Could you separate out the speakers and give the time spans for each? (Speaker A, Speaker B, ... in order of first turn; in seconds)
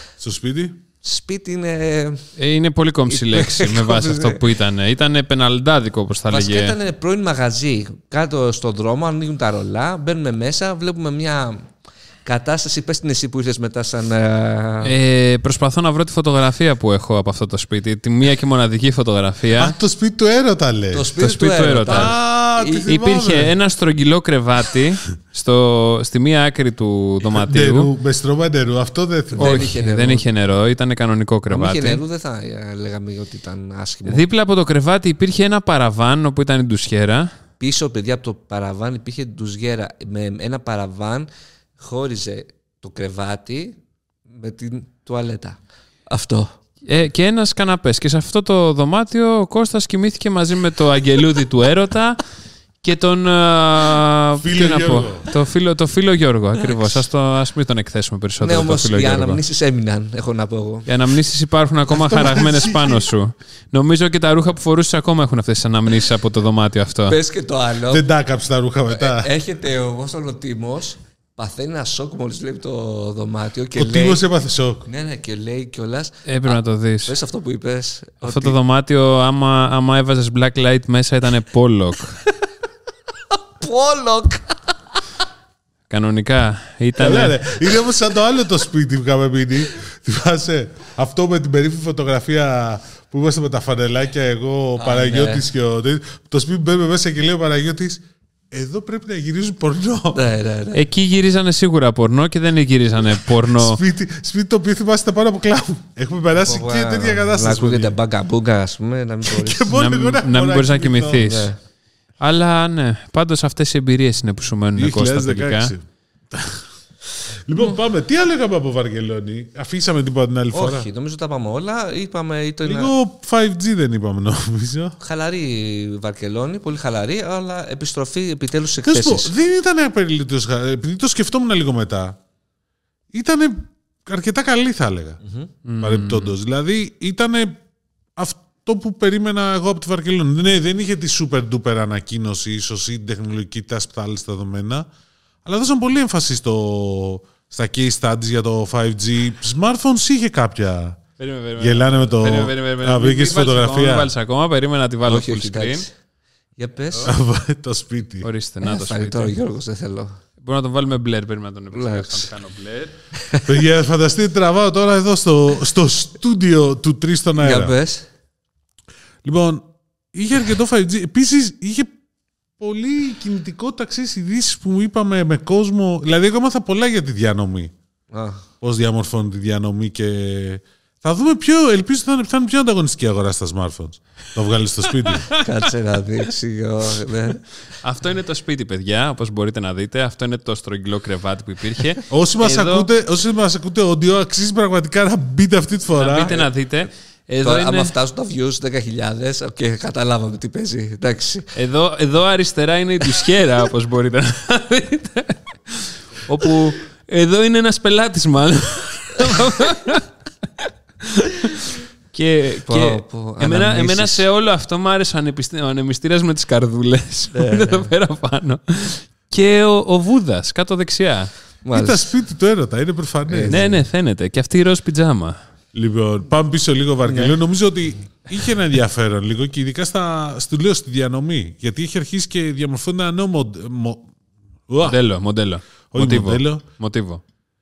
Speaker A: 0.2-0.8, 19.5-21.1, 21.9-23.5, 27.2-29.7, 54.4-55.3, 61.9-63.1, 67.9-69.3, 73.8-74.9, 87.0-100.2, 103.2-108.0, 109.2-111.4, 114.8-116.7, 117.5-120.9, 122.7-125.0, 128.8-132.2, 133.1-135.2, 135.8-137.6, 138.2-144.9, 145.4-151.0, 151.6-154.1, 157.1-158.3, 163.5-167.8, 169.2-171.9, 172.6-177.7, 178.6-185.3, 192.1-196.4, 221.7-223.6, 225.7-234.1, 234.7-235.0, 235.9-236.6
Speaker B: 1.0-2.3, 3.1-4.5, 6.3-11.7, 12.2-14.9, 20.9-22.9, 29.3-30.3, 31.5-34.2, 37.6-46.5, 58.4-60.9, 67.1-68.0, 68.9-74.2, 74.9-78.6, 83.3-84.6, 94.8-95.5, 100.1-100.8, 106.4-109.7, 111.2-111.6, 120.5-122.9, 125.0-129.3, 135.2-135.5, 155.1-155.9, 156.6-157.1, 158.6-160.2, 161.7-162.3, 163.2-163.5, 167.3-168.1, 178.1-178.4, 185.3-187.4, 197.4-201.5, 212.7-214.3, 217.3-217.9, 221.6-222.1, 223.3-223.8, 227.1-227.3
Speaker C: 2.4-6.8, 14.8-19.8, 21.2-22.1, 22.9-27.9, 29.4-32.0, 34.1-37.3, 46.9-52.2, 52.8-59.4, 60.9-67.2, 76.3-77.2, 78.2-82.2, 85.9-87.4, 100.7-103.8, 109.7-111.5, 112.2-115.7, 135.7-136.3, 151.2-155.9, 158.2-159.3, 160.4-162.9, 185.0-185.4, 187.8-192.9, 195.9-197.9, 201.6-210.1, 211.0-221.3, 223.5-225.4, 234.8-237.2